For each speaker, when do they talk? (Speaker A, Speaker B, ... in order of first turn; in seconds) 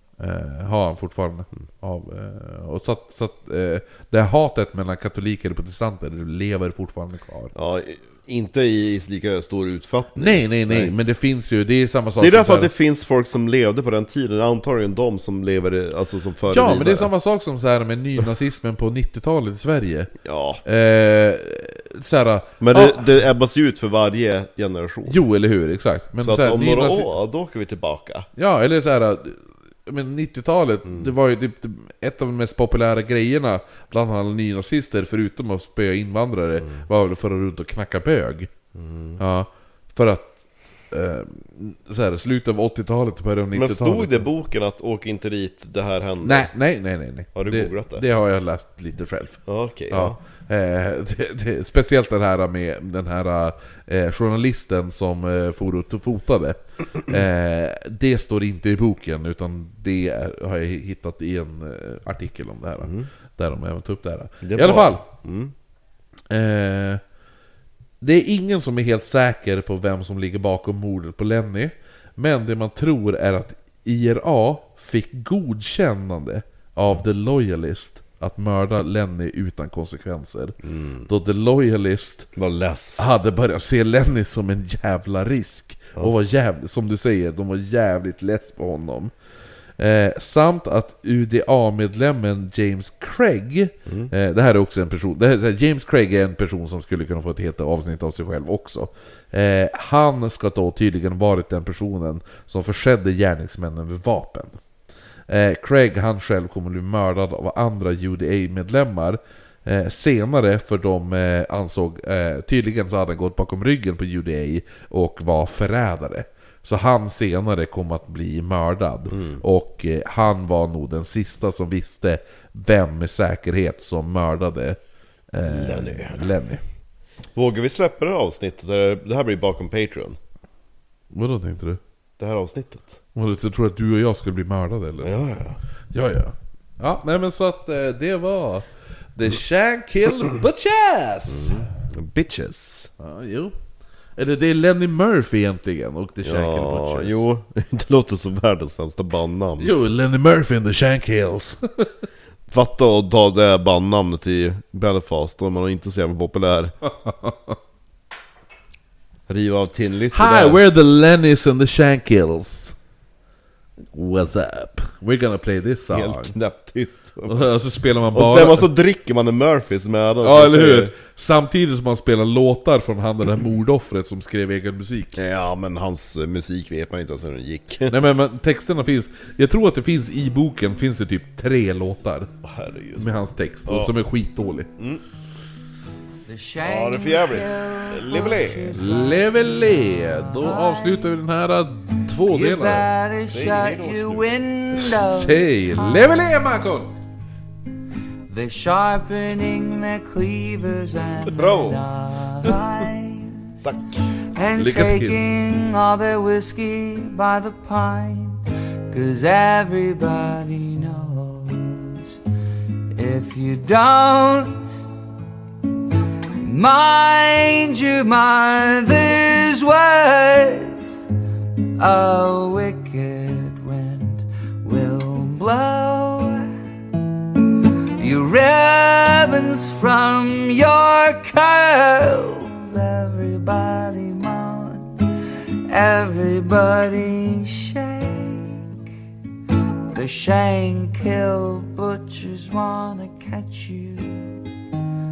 Speaker A: 0.2-7.5, 10.2-12.7, 16.5-20.1, 20.6-23.1, 25.1-27.1, 28.4-38.5, 39.2-40.4, 40.9-44.3, 46.2-65.0, 66.3-67.0, 68.0-80.6, 81.1-82.3, 83.0-89.1, 89.8-104.6, 105.3-124.8, 125.3-126.6, 131.1-131.8, 133.1-135.1, 135.9-141.7, 143.0-143.5, 144.2-147.3, 149.6-152.0, 156.8-157.6, 160.1-162.7, 163.9-166.3, 167.3-168.7, 170.2-175.2, 177.9-182.3, 183.0-184.7, 188.7-192.9, 194.8-196.9, 204.6-205.2
Speaker B: 7.5-10.9, 12.2-17.1, 20.2-20.6, 22.6-25.2, 26.2-28.3, 30.9-31.1, 36.6-36.9, 38.7-39.2, 43.5-46.5, 47.3-48.0, 49.5-50.2, 62.8-63.1, 64.4-65.5, 80.6-81.1, 82.3-83.1, 93.8-94.1, 119.1-119.4, 125.4-126.3, 127.3-130.2, 132.2-133.0, 135.0-135.6, 141.3-142.9, 146.2-149.7, 152.5-156.7, 159.3-160.6, 165.9-167.5, 168.1-170.9, 175.1-178.0, 182.4-183.9, 186.6-188.9, 193.2-194.4, 201.3-201.8, 203.6-204.1
Speaker C: 186.2-191.1, 192.2-196.3, 198.3-203.6, 204.2-212.2, 212.9-214.8, 216.3-221.0, 221.8-226.5, 227.2-238.7, 239.9-244.5